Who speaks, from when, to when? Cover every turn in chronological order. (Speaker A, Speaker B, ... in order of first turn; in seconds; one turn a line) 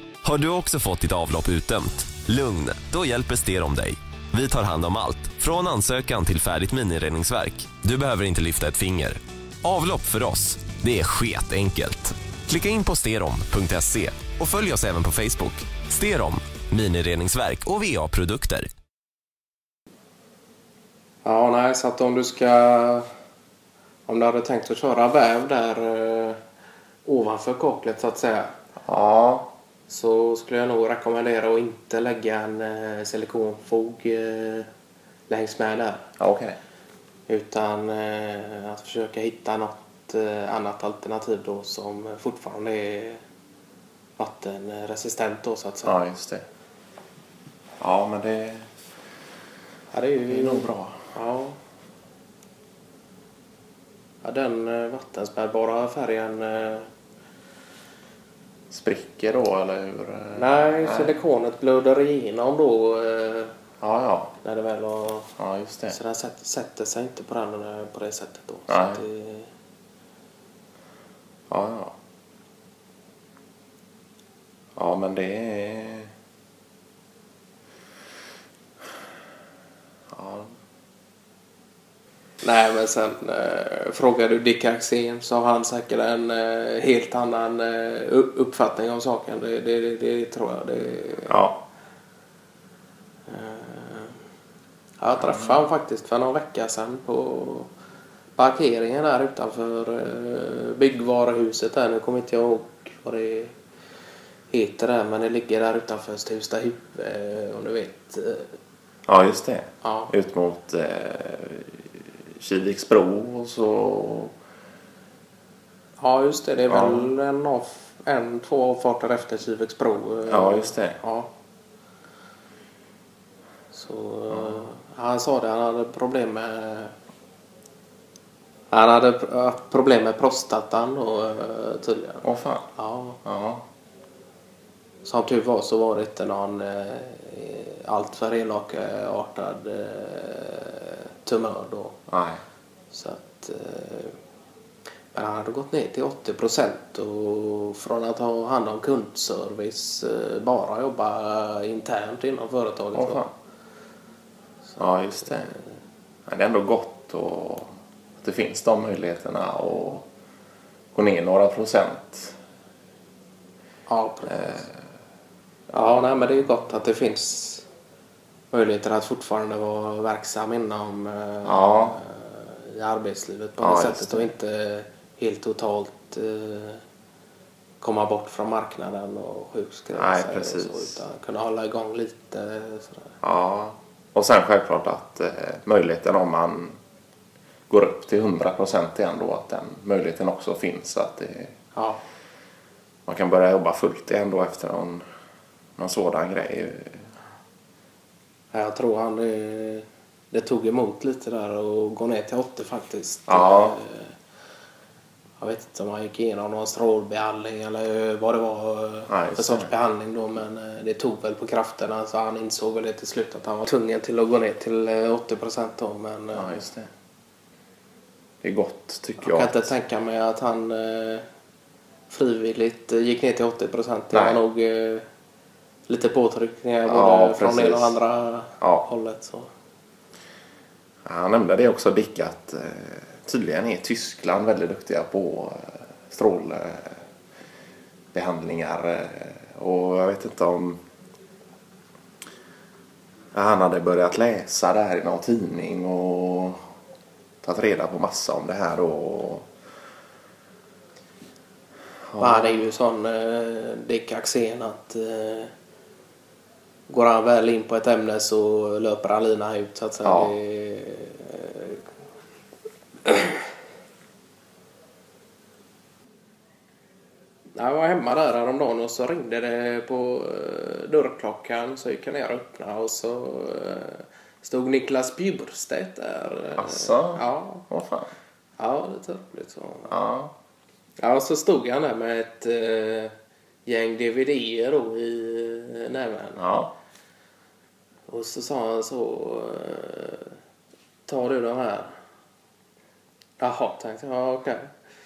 Speaker A: 0.2-18.6
Speaker B: 21.2-23.1
Speaker B: 24.1-26.4
Speaker B: 27.0-28.5
Speaker C: 28.8-29.5
Speaker B: 29.9-34.7
Speaker B: 35.3-36.1
Speaker C: 36.2-36.6
Speaker B: 37.3-43.2
Speaker B: 44.2-46.0
Speaker C: 45.8-46.4
Speaker C: 47.8-48.7
Speaker B: 49.9-51.6
Speaker C: 50.3-51.1
Speaker B: 54.2-56.9
Speaker C: 58.7-61.2
Speaker B: 60.3-63.5
Speaker C: 63.8-64.3
Speaker B: 64.4-65.3
Speaker C: 65.4-66.0
Speaker B: 65.9-69.5
Speaker C: 68.7-69.0
Speaker C: 71.5-72.0
Speaker C: 74.8-76.1
Speaker C: 80.1-80.5
Speaker B: 82.4-91.4
Speaker C: 91.3-91.6
Speaker B: 93.3-94.1
Speaker B: 95.0-97.7
Speaker C: 95.2-95.7
Speaker B: 98.3-103.5
Speaker B: 104.5-108.5
Speaker C: 109.1-114.3
Speaker B: 109.8-110.1
Speaker B: 116.0-121.3
Speaker C: 116.7-117.1
Speaker C: 120.3-121.0
Speaker B: 123.7-126.9
Speaker C: 124.3-124.6
Speaker B: 128.7-132.2
Speaker C: 132.2-132.7
Speaker B: 132.8-133.2
Speaker C: 133.2-133.6
Speaker B: 135.0-142.0
Speaker C: 142.1-142.4
Speaker B: 142.9-144.2
Speaker B: 145.1-153.2
Speaker C: 152.9-153.3
Speaker C: 154.8-155.6
Speaker C: 156.3-160.1
Speaker C: 160.9-162.3
Speaker B: 163.9-164.7
Speaker C: 164.3-164.7
Speaker B: 165.7-167.7
Speaker B: 168.5-176.8
Speaker C: 171.4-172.0
Speaker C: 173.6-174.3
Speaker B: 177.8-183.1
Speaker C: 179.9-181.0
Speaker C: 183.2-186.8
Speaker C: 187.7-191.5
Speaker B: 191.7-192.0
Speaker C: 193.1-195.0
Speaker C: 195.8-197.1
Speaker B: 198.5-204.1
Speaker C: 203.3-203.8
Speaker B: 205.4-216.7
Speaker C: 209.1-209.7
Speaker C: 216.3-216.9
Speaker C: 218.4-219.7
Speaker B: 219.2-221.2
Speaker B: 222.1-225.0
Speaker C: 224.1-224.4
Speaker B: 225.9-229.5
Speaker C: 226.9-228.0
Speaker C: 228.6-228.8
Speaker C: 231.1-237.0
Speaker C: 238.1-240.8
Speaker C: 243.3-246.7
Speaker C: 247.4-249.5
Speaker C: 252.1-252.7
Speaker B: 252.2-255.5
Speaker B: 256.9-261.8
Speaker C: 260.0-260.3
Speaker B: 263.0-263.4
Speaker B: 267.5-277.6
Speaker C: 276.6-278.1
Speaker B: 278.6-279.9
Speaker C: 279.9-280.3
Speaker B: 281.0-283.1
Speaker B: 283.6-286.4
Speaker C: 286.4-286.7
Speaker B: 288.1-290.3
Speaker B: 291.1-291.9
Speaker B: 293.4-294.7